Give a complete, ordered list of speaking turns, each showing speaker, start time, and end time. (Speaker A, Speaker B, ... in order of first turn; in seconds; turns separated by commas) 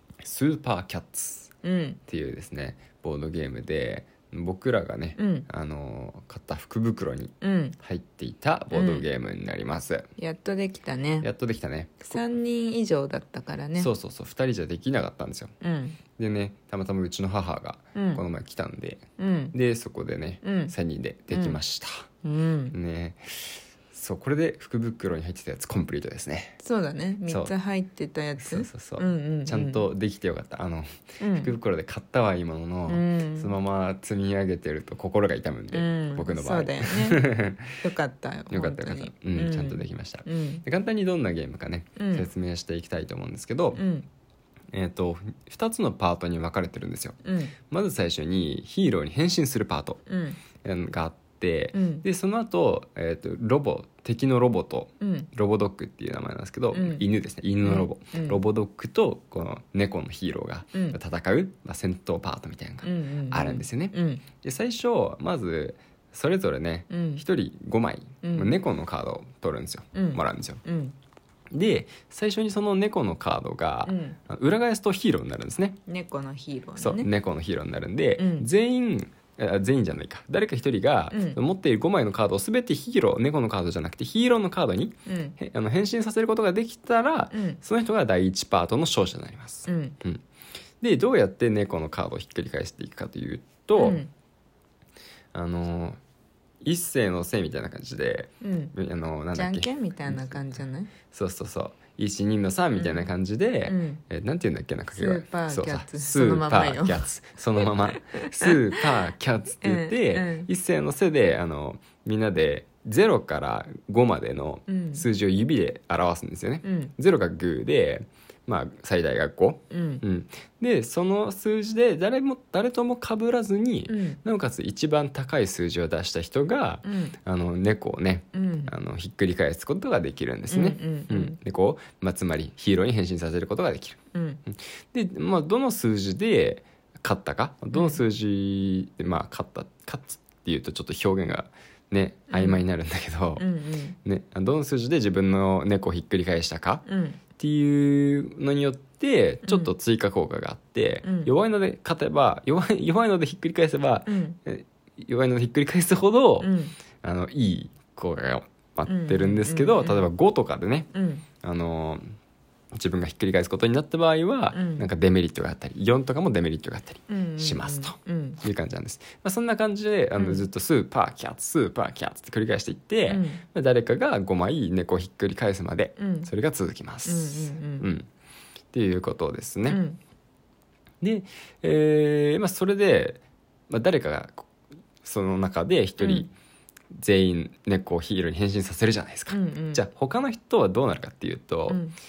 Speaker A: 0.2-1.5, Speaker B: 1.6-2.0, Speaker A: 2.1-10.1, Speaker B: 5.2-5.5, Speaker B: 7.4-7.8, Speaker B: 8.7-9.1, Speaker B: 10.2-11.3, Speaker A: 11.2-12.2, Speaker B: 12.0-13.9, Speaker A: 13.8-15.5, Speaker B: 15.6-16.0, Speaker A: 16.2-22.1, Speaker B: 17.9-18.2, Speaker B: 19.2-19.5, Speaker B: 20.4-20.7, Speaker B: 21.3-21.6, Speaker B: 22.2-22.8, Speaker A: 22.7-26.6, Speaker B: 26.6-29.9, Speaker A: 27.3-27.5, Speaker A: 28.4-37.8, Speaker B: 31.2-31.5, Speaker B: 32.9-33.5, Speaker B: 35.7-37.3, Speaker B: 37.8-40.6, Speaker A: 38.5-43.8, Speaker B: 42.0-42.3, Speaker B: 43.8-44.1, Speaker A: 44.7-47.2, Speaker B: 47.2-47.6, Speaker A: 47.7-50.0, Speaker B: 50.1-50.4, Speaker A: 50.6-70.6, Speaker B: 51.7-52.0, Speaker B: 55.0-55.3, Speaker B: 56.7-57.0, Speaker B: 57.6-58.4, Speaker B: 62.8-64.2, Speaker B: 66.9-67.2, Speaker B: 68.2-68.6, Speaker B: 69.9-71.0, Speaker A: 71.5-75.8, Speaker B: 73.8-74.2, Speaker B: 75.9-77.1, Speaker A: 76.8-90.2, Speaker B: 78.2-78.5, Speaker B: 81.1-81.4, Speaker B: 85.1-85.4, Speaker B: 87.3-87.6, Speaker B: 89.7-90.0, Speaker A: 90.8-94.0, Speaker B: 93.8-94.1, Speaker A: 95.3-96.0, Speaker A: 96.6-100.4, Speaker B: 98.4-98.7, Speaker B: 99.3-100.9, Speaker A: 101.1-143.5, Speaker B: 102.8-103.1, Speaker B: 103.7-104.0, Speaker B: 104.9-108.5, Speaker B: 109.6-110.5, Speaker B: 114.7-115.1, Speaker B: 116.6-116.9, Speaker B: 119.7-120.0, Speaker B: 123.9-124.2, Speaker B: 126.8-127.2, Speaker B: 128.3-128.7, Speaker B: 130.5-131.4, Speaker B: 134.1-134.4, Speaker B: 137.7-138.0, Speaker B: 142.3-142.6, Speaker B: 143.4-144.0, Speaker A: 144.1-146.8, Speaker B: 146.9-147.2, Speaker A: 147.4-160.9, Speaker B: 149.5-149.7, Speaker B: 151.0-151.3, Speaker B: 154.1-154.4, Speaker B: 156.4-156.8, Speaker B: 158.8-160.1, Speaker B: 160.9-161.3, Speaker A: 161.4-162.0, Speaker A: 162.7-178.1, Speaker B: 164.5-164.9, Speaker B: 167.1-168.4, Speaker B: 170.2-170.5, Speaker B: 173.1-173.4, Speaker B: 176.0-176.3, Speaker B: 177.1-177.9, Speaker A: 178.7-179.8, Speaker B: 179.7-180.0, Speaker A: 181.0-186.3, Speaker B: 186.0-186.3, Speaker A: 186.9-191.8, Speaker B: 189.3-189.8, Speaker B: 191.7-192.0